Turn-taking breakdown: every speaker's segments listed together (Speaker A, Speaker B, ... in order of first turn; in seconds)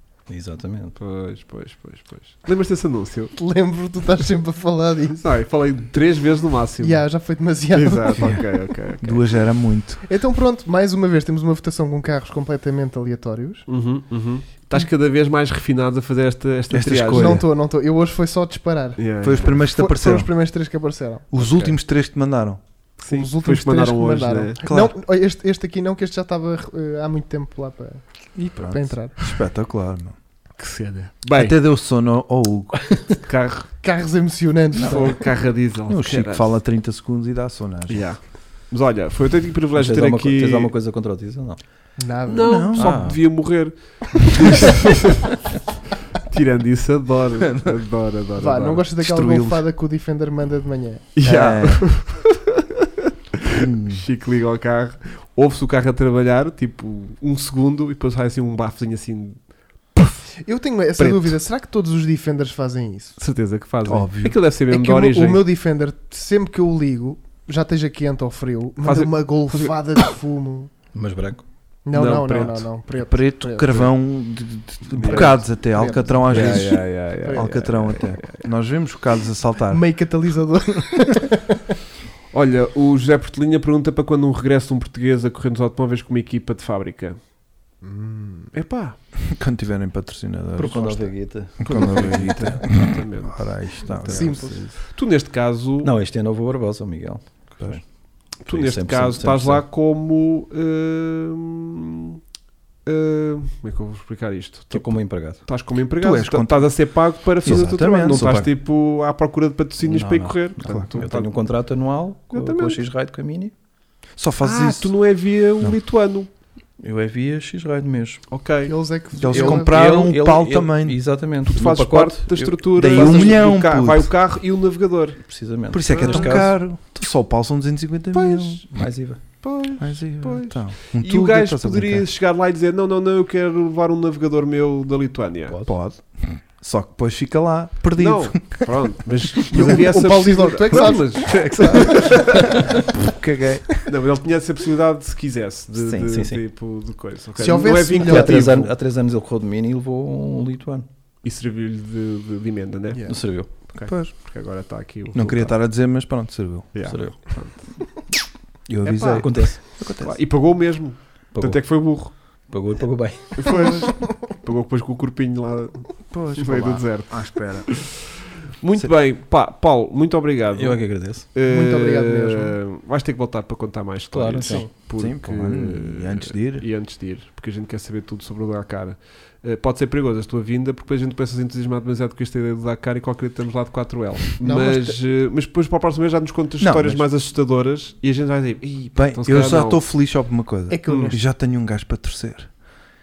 Speaker A: 0.3-1.0, 39.7-41.6, 42.8-43.2, 70.9-71.4, 90.6-92.3, 95.8-97.8, 98.5-99.6, 104.7-105.4, 107.4-108.5, 109.8-113.5, 116.8-118.2, 119.3-123.4, 125.2-126.5, 128.7-129.2, 146.1-146.4, 148.0-150.8, 153.1-153.5, 156.8-157.5, 159.1-159.6, 161.3-163.5, 170.5-171.3, 174.1-174.7
Speaker B: 1.0-3.3, 5.2-7.0, 7.7-9.2, 13.7-17.4, 19.0-19.6, 21.4-21.8, 23.0-24.6, 30.6-31.6, 33.2-33.7, 34.7-36.5, 37.9-40.7, 42.3-45.4, 46.3-48.8, 51.1-52.5, 53.4-59.4, 59.9-60.2, 61.0-61.4, 63.2-65.4, 68.8-69.8, 71.9-72.7, 74.9-75.5, 76.2-78.5, 82.3-87.2, 88.5-89.0, 91.6-95.9, 98.4-102.2, 102.8-111.3, 112.3-112.8, 114.4-116.3, 118.3-118.7, 121.5-125.2, 125.8-126.5, 128.1-128.6, 129.4-135.6, 138.0-142.7, 143.8-148.7, 151.2-155.5, 156.7-157.7, 158.8-159.5, 160.0-162.1, 163.3-167.9, 168.6-170.8, 171.3-189.8, 190.9-191.2
Speaker C: 3.4-5.2, 6.8-8.5, 10.0-13.7, 17.1-21.2, 23.1-29.3, 33.8-35.2, 42.0-42.8, 48.4-51.1, 60.4-63.2, 64.7-70.7, 71.8-73.9, 75.0-78.1, 79.7-81.6, 87.8-88.5, 94.0-94.7, 118.6-119.8, 139.5-142.7, 147.4-148.5, 163.5-164.1, 171.4-172.6, 174.4-174.7, 184.4-185.0, 190.7-191.2
Speaker D: 9.0-10.0, 16.7-17.4, 19.2-20.3, 21.3-22.6, 24.6-24.9, 28.4-30.1, 31.3-33.0, 35.9-38.1, 42.4-43.0, 49.0-49.6, 51.2-51.9, 53.5-54.0, 63.8-64.4, 73.0-79.8, 89.2-94.5, 106.0-106.8, 107.4-108.5, 114.2-114.9, 119.2-121.0, 122.8-124.1, 125.7-128.6, 129.8-132.1, 135.7-138.7, 142.9-143.8, 145.7-146.1, 153.9-154.1, 155.1-156.7, 158.7-160.2, 166.1-167.9, 174.9-176.7, 186.6-187.1, 188.9-192.5